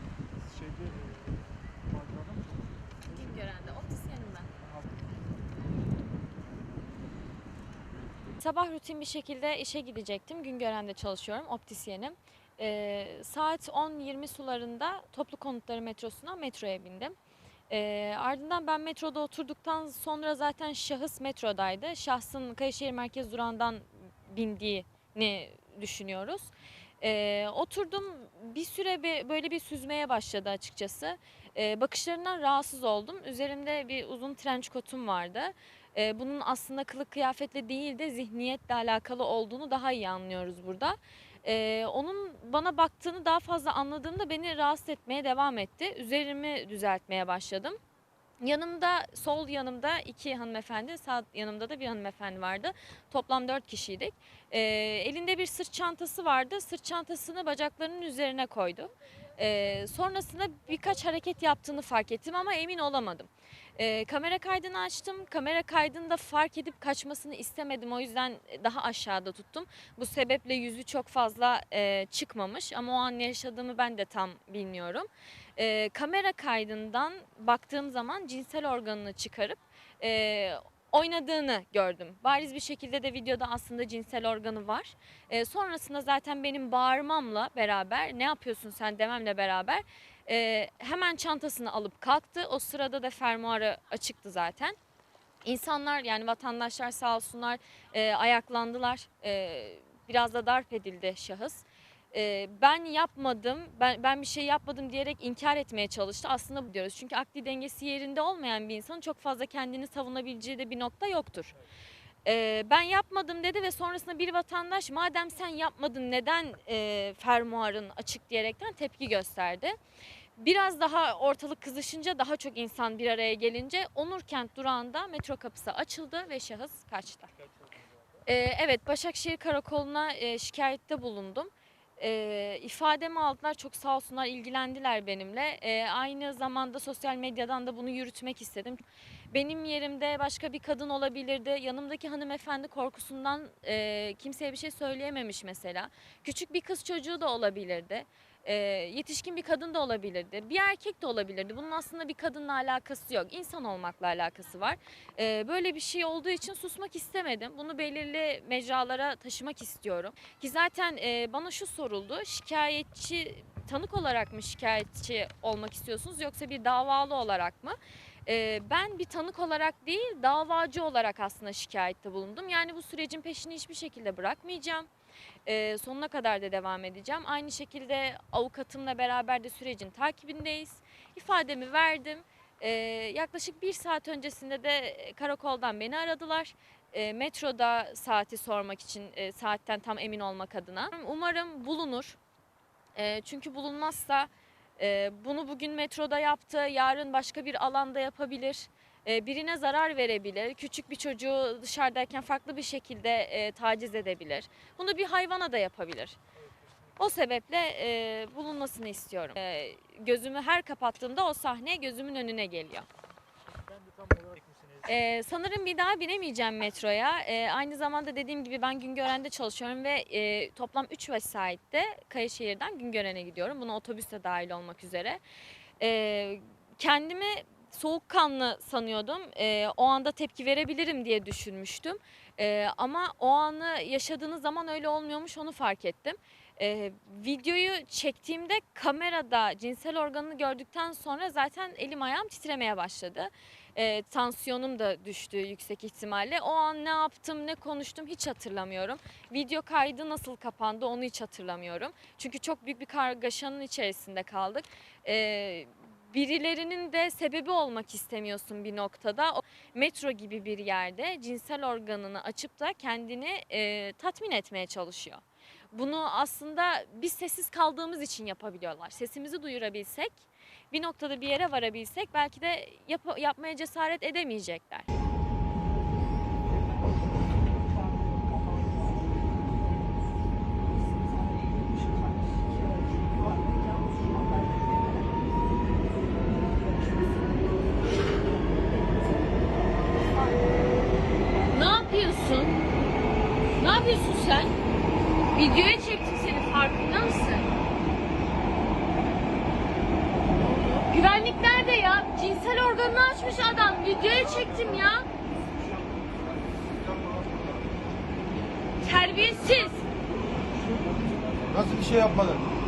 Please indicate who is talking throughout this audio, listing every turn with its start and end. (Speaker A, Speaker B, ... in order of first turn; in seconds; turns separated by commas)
Speaker A: 0.4-7.2, Speaker B: 3.1-4.5, Speaker A: 8.0-8.4, Speaker B: 8.4-17.2, Speaker B: 17.7-47.8, Speaker B: 48.4-94.8, Speaker B: 95.5-111.5, Speaker B: 112.2-119.8, Speaker B: 120.4-127.3, Speaker A: 127.3-128.3, Speaker B: 128.3-138.8, Speaker B: 139.3-174.9, Speaker B: 175.5-192.2, Speaker B: 193.0-206.2, Speaker A: 206.3-207.3, Speaker B: 207.0-212.9, Speaker A: 213.4-215.0, Speaker B: 214.9-225.2, Speaker B: 225.8-274.9, Speaker A: 276.5-276.9, Speaker A: 278.0-278.6, Speaker C: 291.5-292.6, Speaker C: 293.6-294.5, Speaker C: 295.4-297.5, Speaker C: 300.6-305.1, Speaker C: 308.8-309.9